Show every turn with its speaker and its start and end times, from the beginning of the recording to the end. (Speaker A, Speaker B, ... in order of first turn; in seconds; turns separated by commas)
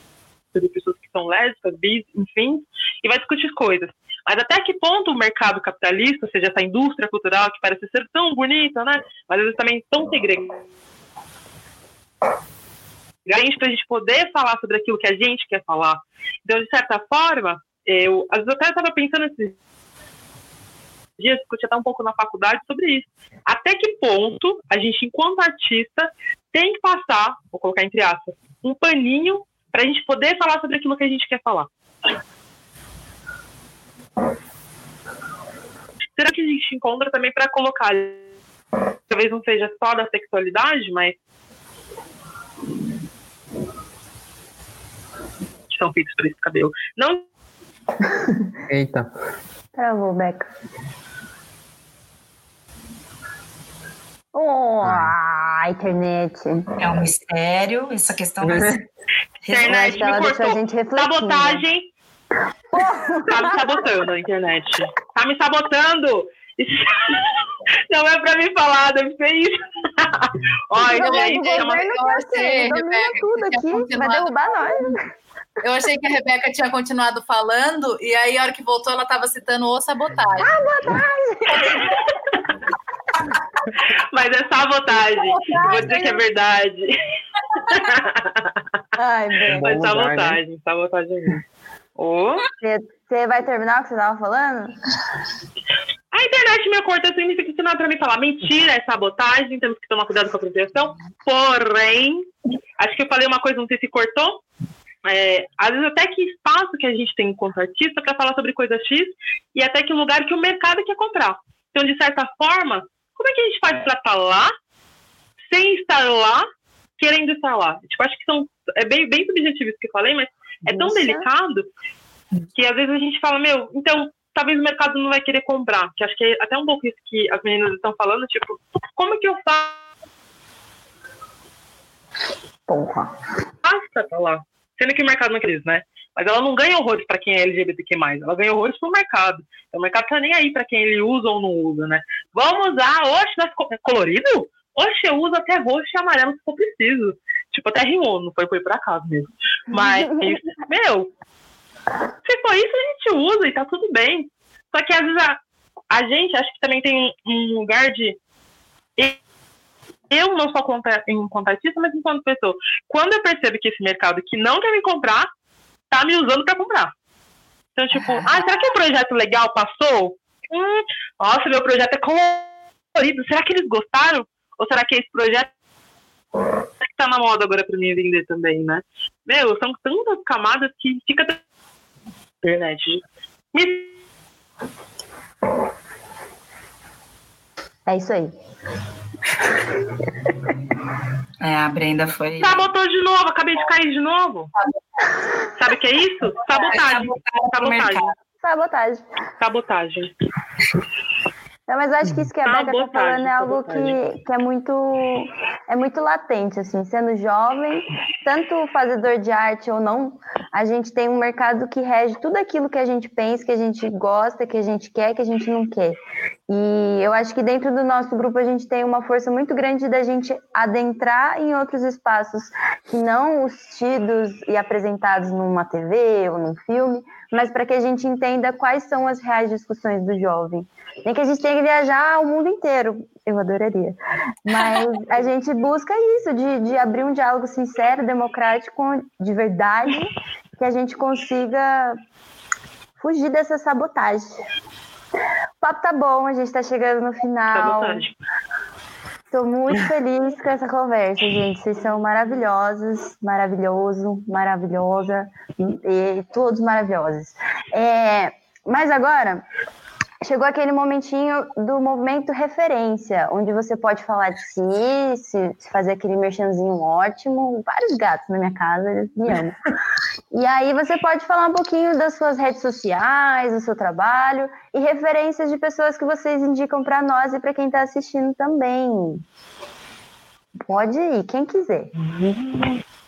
Speaker A: 0.5-10.6, Speaker A: 13.3-19.6, Speaker A: 21.2-31.7, Speaker A: 36.2-38.2, Speaker A: 39.1-41.2, Speaker A: 45.7-47.3, Speaker B: 48.7-49.1, Speaker C: 49.8-50.5, Speaker C: 54.3-56.7, Speaker B: 54.8-55.1, Speaker D: 56.8-58.8, Speaker B: 58.4-58.8, Speaker D: 59.4-60.0, Speaker A: 59.5-61.9, Speaker C: 59.6-61.7, Speaker C: 62.7-63.8, Speaker A: 63.2-67.3, Speaker A: 67.9-71.9, Speaker C: 70.8-75.0, Speaker E: 70.9-75.0, Speaker E: 75.6-80.5, Speaker C: 80.4-82.0, Speaker A: 83.9-86.9, Speaker C: 85.0-86.2, Speaker A: 87.7-88.6, Speaker C: 89.0-89.9, Speaker B: 89.5-90.4, Speaker A: 89.6-91.4, Speaker A: 92.0-92.5, Speaker C: 92.6-94.8, Speaker A: 96.1-102.3, Speaker A: 102.8-104.4, Speaker A: 105.0-114.5, Speaker A: 115.5-116.5, Speaker A: 117.0-121.7, Speaker C: 120.7-121.3, Speaker A: 122.5-129.8, Speaker C: 132.7-133.1, Speaker A: 133.6-151.1, Speaker A: 152.2-155.4, Speaker A: 155.9-158.2, Speaker A: 160.1-165.3, Speaker A: 165.9-166.9, Speaker A: 167.8-175.5, Speaker A: 176.8-181.4, Speaker A: 182.4-183.0, Speaker A: 183.5-183.9, Speaker C: 187.9-188.3, Speaker D: 191.4-192.7, Speaker A: 192.4-194.5, Speaker A: 195.6-198.1, Speaker D: 196.6-198.1, Speaker C: 198.4-199.0, Speaker A: 199.4-200.1, Speaker C: 201.7-216.0, Speaker A: 202.4-204.0, Speaker C: 216.5-242.0, Speaker C: 243.0-244.3, Speaker C: 245.6-248.0, Speaker A: 247.5-248.1, Speaker C: 249.3-259.4, Speaker C: 260.2-269.6, Speaker C: 270.3-279.2, Speaker C: 280.7-281.9, Speaker A: 282.0-282.8